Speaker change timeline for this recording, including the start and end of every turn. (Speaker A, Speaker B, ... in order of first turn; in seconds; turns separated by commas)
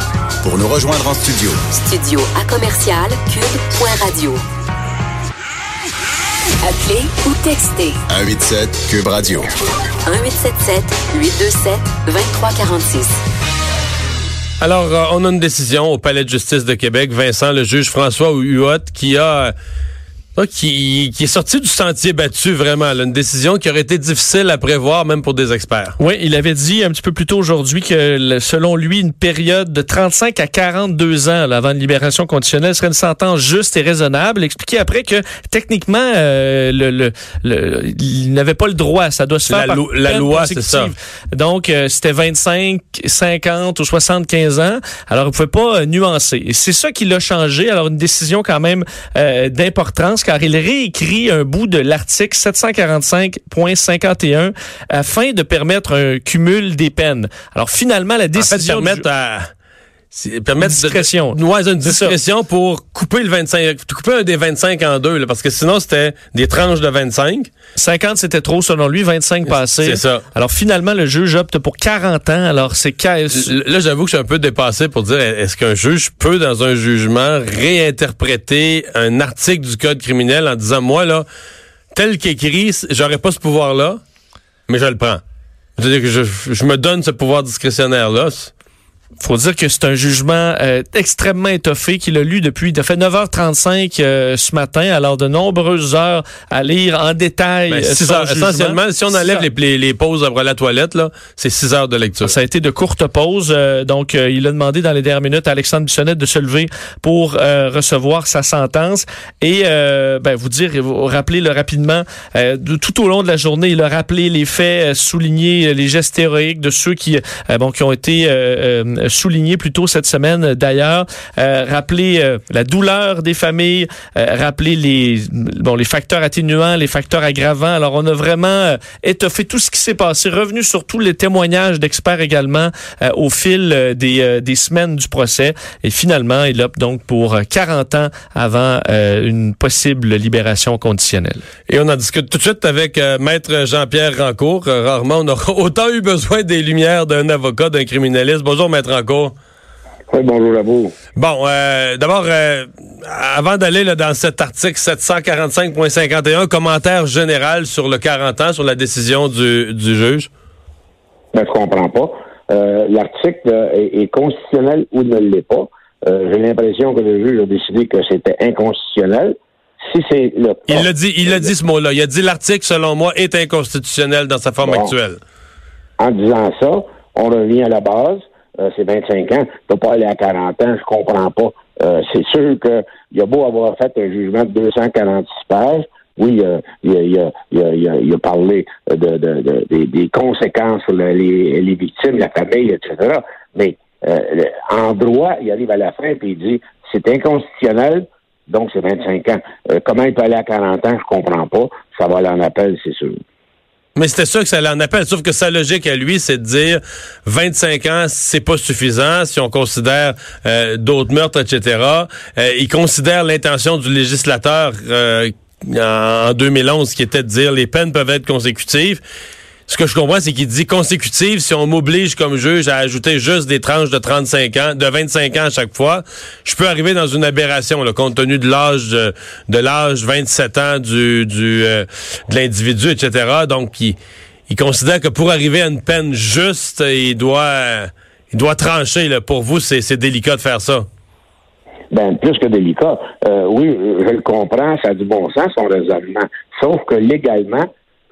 Speaker A: 0.4-1.6, Speaker B: 1.7-4.4, Speaker B: 6.6-8.0, Speaker A: 8.1-9.5, Speaker B: 10.1-13.2, Speaker C: 14.6-19.5, Speaker C: 20.4-26.0, Speaker D: 26.0-59.0, Speaker C: 39.5-40.9, Speaker C: 58.4-59.5, Speaker C: 60.1-67.5, Speaker D: 60.6-62.1, Speaker D: 67.8-73.5, Speaker C: 69.8-70.2, Speaker C: 73.3-81.3, Speaker C: 81.9-84.0, Speaker C: 84.7-85.2, Speaker C: 85.8-88.5, Speaker D: 89.2-99.5, Speaker C: 97.7-102.3, Speaker D: 102.2-141.4, Speaker C: 141.7-149.3, Speaker E: 150.1-150.9, Speaker C: 151.2-160.3, Speaker E: 161.3-171.5, Speaker C: 170.7-175.2, Speaker E: 174.6-174.9, Speaker E: 176.0-203.2, Speaker C: 204.0-219.0, Speaker C: 219.7-240.9, Speaker E: 241.9-247.7